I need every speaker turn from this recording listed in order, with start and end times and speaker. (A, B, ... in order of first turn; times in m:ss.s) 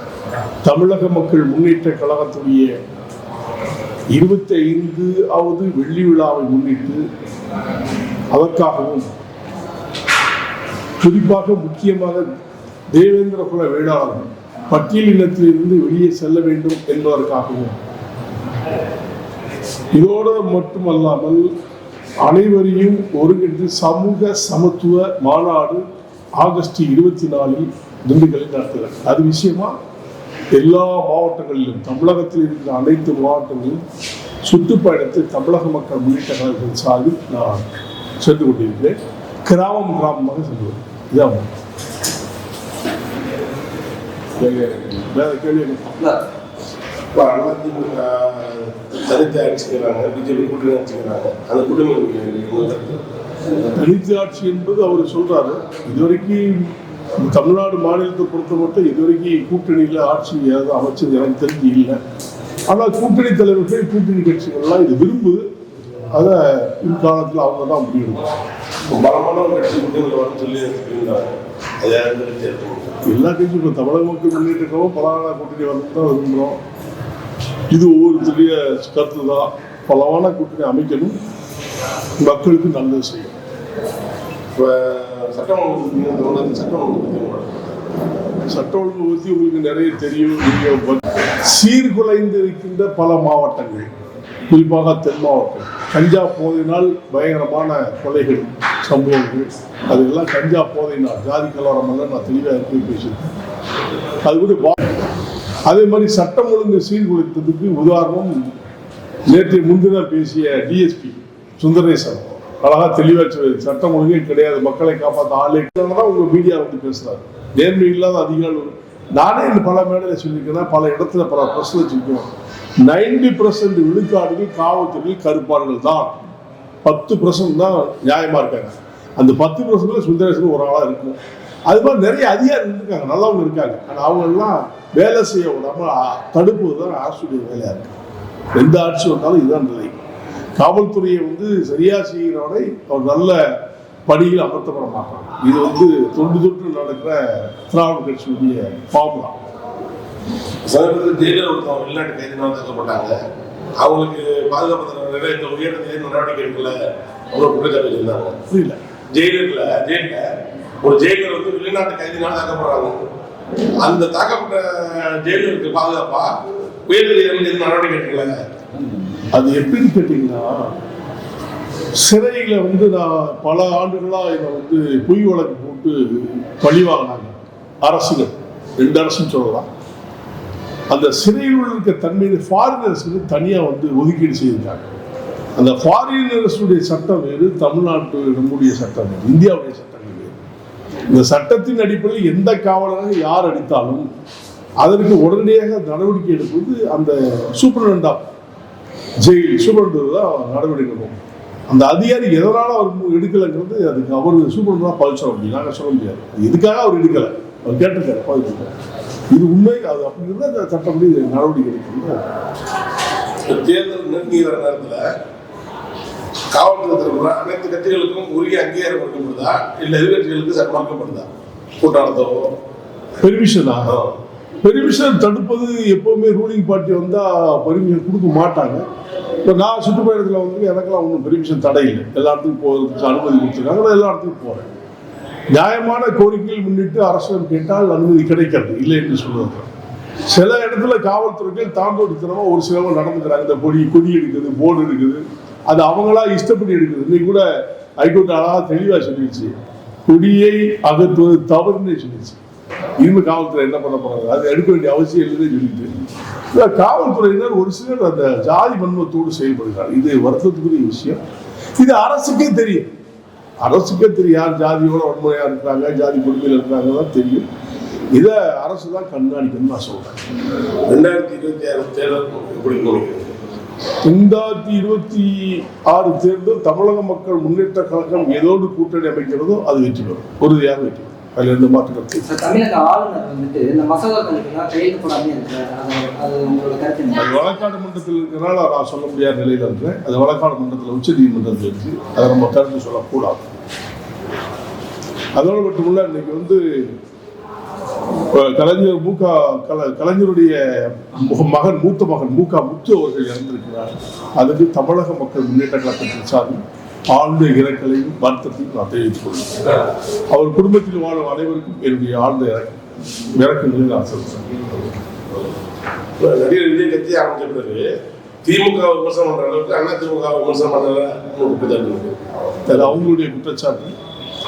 0:00.6-0:02.8 A
0:04.1-0:07.0 A
0:08.3-0:09.1 A
0:11.0-0:12.2 A
0:12.9-0:17.8 A
0:19.9-0:21.5 A
0:22.2-0:25.8 A
0:26.4-0:29.8 A
0:30.5-0:33.8 A
0:34.4-0:37.6 A
0:38.2-0:41.5 A
0:44.4-0:46.2 A
0:47.1-0:53.0 B
0:53.7-1:02.0 A
1:02.7-1:05.4 A
1:06.1-1:08.3 A
1:08.9-1:13.0 B
1:13.0-1:16.6 A
1:17.7-1:21.2 A
1:22.2-1:23.4 A
1:24.6-1:27.8 B
1:28.5-1:33.9 A
1:34.5-1:43.3 A
1:44.2-1:44.9 A
1:45.6-1:48.4 A
1:49.3-2:02.3 A
2:02.8-2:06.2 A
2:06.8-2:11.2 A
2:11.7-2:17.9 A
2:18.5-2:20.0 A
2:20.6-2:29.4 A
2:30.6-2:33.2 B
2:33.8-2:38.4 B
2:38.5-2:38.8 A
2:39.1-2:43.0 B
2:43.8-2:48.5 B
2:49.3-2:50.7 A
2:52.0-2:59.7 A
3:00.9-3:04.9 A
3:05.6-3:10.4 A
3:11.1-3:14.1 A
3:14.8-3:18.2 A
3:19.2-3:21.2 A
3:21.7-3:28.7 A
3:29.3-3:32.2 A
3:33.4-3:35.1 B
3:36.5-3:42.5 B
3:43.2-3:44.0 A
3:44.6-3:48.8 A
3:49.4-3:54.7 A
3:55.5-3:59.7 A
4:00.3-4:07.4 A
4:08.0-4:12.4 A
4:13.0-4:15.9 A
4:16.5-4:21.2 A
4:21.8-4:22.9 A
4:23.6-4:27.4 A
4:28.1-4:30.2 A
4:30.8-4:33.3 B
4:34.0-4:42.3 A
4:42.2-4:47.4 C
4:47.1-4:53.5 A
4:55.4-4:56.9 A
4:58.3-5:12.8 A
5:13.4-5:14.5 A
5:16.2-5:17.9 B
5:18.4-5:22.2 B
5:22.7-5:23.9 A
5:22.7-5:23.0 B